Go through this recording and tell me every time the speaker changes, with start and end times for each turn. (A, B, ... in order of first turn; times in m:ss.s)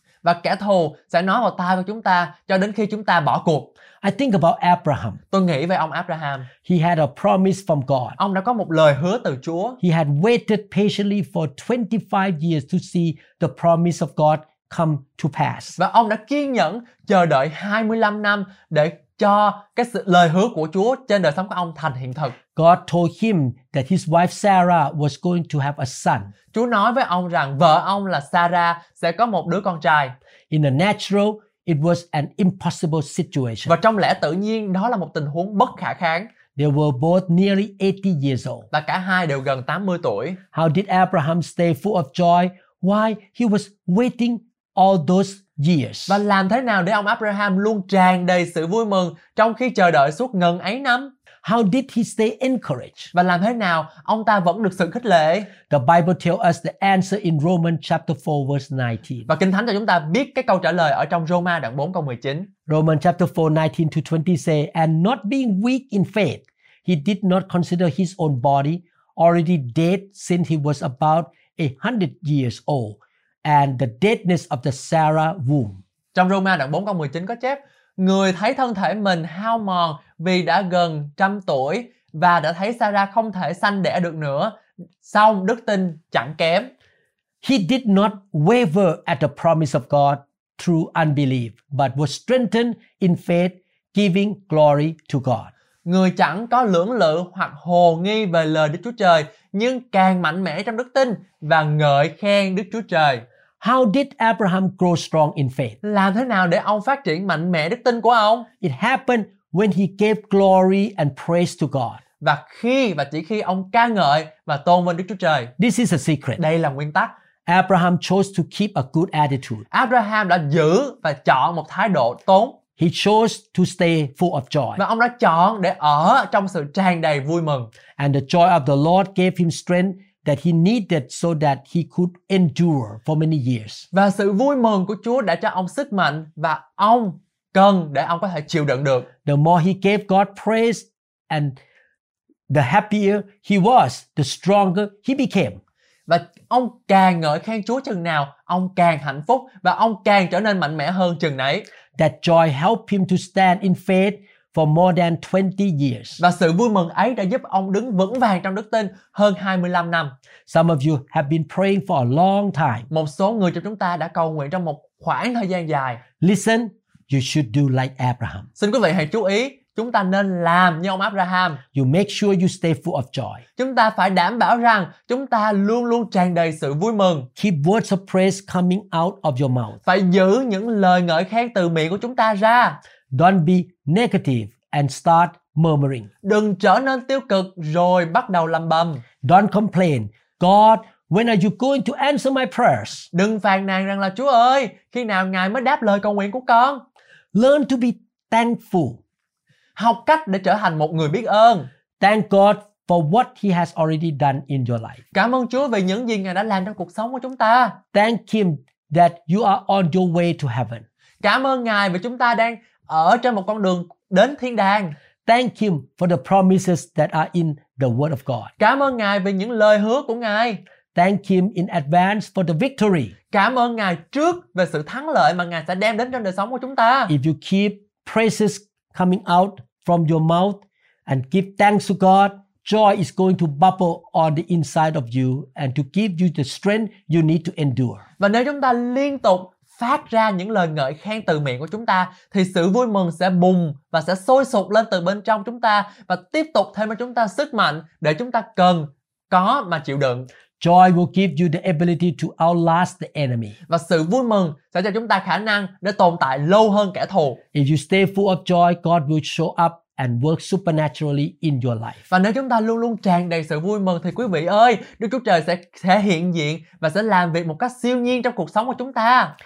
0:00.2-0:03.7 A
0:04.0-0:05.2 B
0:05.3-0:06.5 A
0:06.6-0:08.2 B
0:08.2-0:09.8 A
0:09.8-0:15.8 B
0:15.8-0:22.4 A
0:22.6-0:26.3 B
0:26.5-0:30.1 A
0:30.5-0:33.8 B
0:33.7-0:36.3 A
0:36.6-0:38.7 B
0:38.7-0:40.4 A
0:40.5-0:46.2 B
0:46.1-0:51.1 A
0:51.4-0:53.1 B
0:53.1-0:55.5 A
0:55.7-0:59.3 B
0:59.3-1:02.5 A
1:02.7-1:15.8 B
1:16.2-1:26.7 A
1:27.4-1:35.5 B
1:35.8-1:43.2 A
1:43.6-1:45.8 B
1:45.8-1:48.5 A
1:48.6-1:52.0 B
1:52.2-1:55.5 A
1:55.6-1:56.4 B
1:56.4-1:57.1 A
1:57.5-1:59.7 B
1:59.7-2:02.6 A
2:02.8-2:04.8 B
2:04.8-2:07.7 A
2:08.0-2:13.9 B
2:13.9-2:19.1 A
2:19.2-2:21.6 B
2:22.5-2:25.6 B
2:26.1-2:31.7 A
2:32.0-2:36.2 B
2:36.2-2:40.1 A
2:40.5-2:42.9 B
2:42.9-2:46.0 A
2:46.2-2:48.5 B
2:48.6-2:51.6 A
2:51.7-2:53.4 B
2:53.6-2:57.3 A
2:57.4-2:59.8 B
2:59.8-3:02.8 A
3:03.1-3:06.1 B
3:06.2-3:09.0 A
3:09.2-3:13.1 B
3:13.1-3:16.8 A
3:17.3-3:19.0 B
3:19.8-3:21.7 A
3:22.0-3:25.0 B
3:25.1-3:27.8 A
3:27.9-3:30.8 B
3:31.2-3:35.0 A
3:35.3-3:38.5 B
3:38.6-3:40.6 A
3:40.9-3:43.1 B
3:43.3-3:47.1 A
3:47.1-3:58.0 B
3:58.2-4:10.3 A
4:10.6-4:13.6 B
4:13.7-4:17.4 A
4:17.5-4:22.0 B
4:22.1-4:29.3 A